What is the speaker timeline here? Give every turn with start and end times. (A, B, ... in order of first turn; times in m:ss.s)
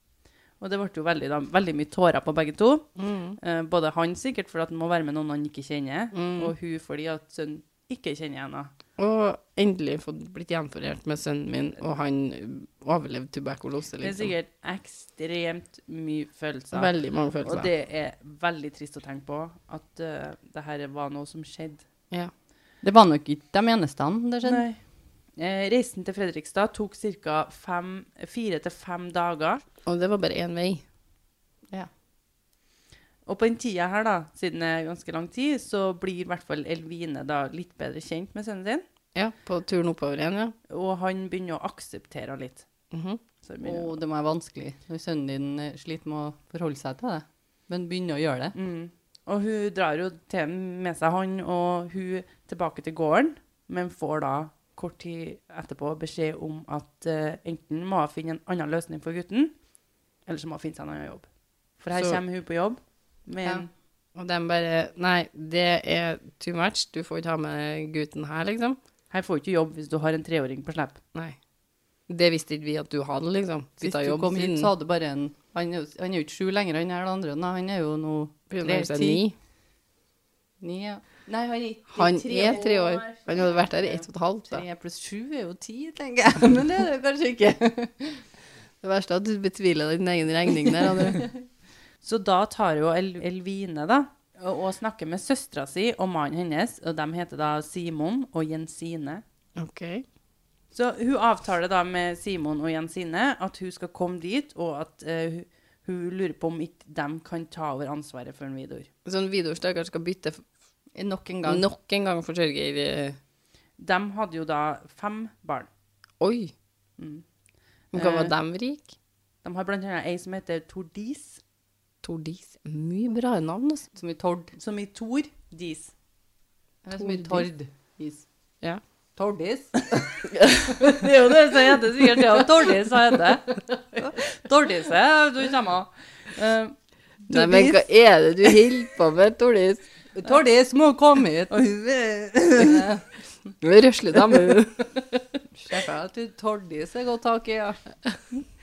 0:00.6-0:02.9 A
0:03.0-0:03.4 B
0:03.4-0:08.7 A
0:06.1-0:06.5 B
0:09.0-0:14.3 B
0:14.0-0:21.9 A
0:16.7-0:17.7 B
0:22.8-0:24.6 C
0:24.4-0:24.8 A
0:25.4-0:29.6 A
0:29.9-0:30.8 B
0:33.3-0:38.8 A
0:39.2-0:40.6 B
0:40.7-0:42.7 A
0:42.9-0:43.2 B
0:43.4-0:44.0 A
0:43.6-0:48.6 C
0:48.6-0:59.5 A
1:00.3-1:03.7 A
1:01.9-1:02.2 B
1:04.2-1:08.8 B
1:09.1-1:11.0 A
1:12.1-1:14.7 B
1:13.8-1:19.2 C
1:18.5-1:19.3 B
1:20.6-1:22.6 C
1:21.9-1:24.0 A
1:22.0-1:24.6 B
1:24.5-1:28.2 C
1:28.8-1:31.3 B
1:32.0-1:39.2 A
1:39.6-1:40.0 B
1:40.7-1:48.9 A
1:49.1-1:50.4 B
1:51.0-1:51.6 C
1:51.4-1:53.2 B
1:53.8-1:55.7 A
1:56.2-1:56.5 B
1:57.0-1:57.2 A
1:57.9-1:58.9 B
1:58.0-1:58.3 A
1:59.4-2:01.4 A
2:02.0-2:03.9 B
2:04.0-2:04.5 C
2:04.6-2:05.9 A
2:06.8-2:08.2 C
2:07.0-2:07.5 B
2:09.2-2:10.1 C
2:09.4-2:09.6 A
2:10.3-2:10.7 B
2:10.7-2:12.4 C
2:10.8-2:16.8 A
2:17.3-2:19.8 B
2:17.3-2:17.6 A
2:17.5-2:17.8 C
2:20.2-2:21.7 C
2:21.5-2:22.9 A
2:22.5-2:23.0 C
2:23.6-2:25.2 B
2:25.6-2:27.7 C
2:25.7-2:26.6 A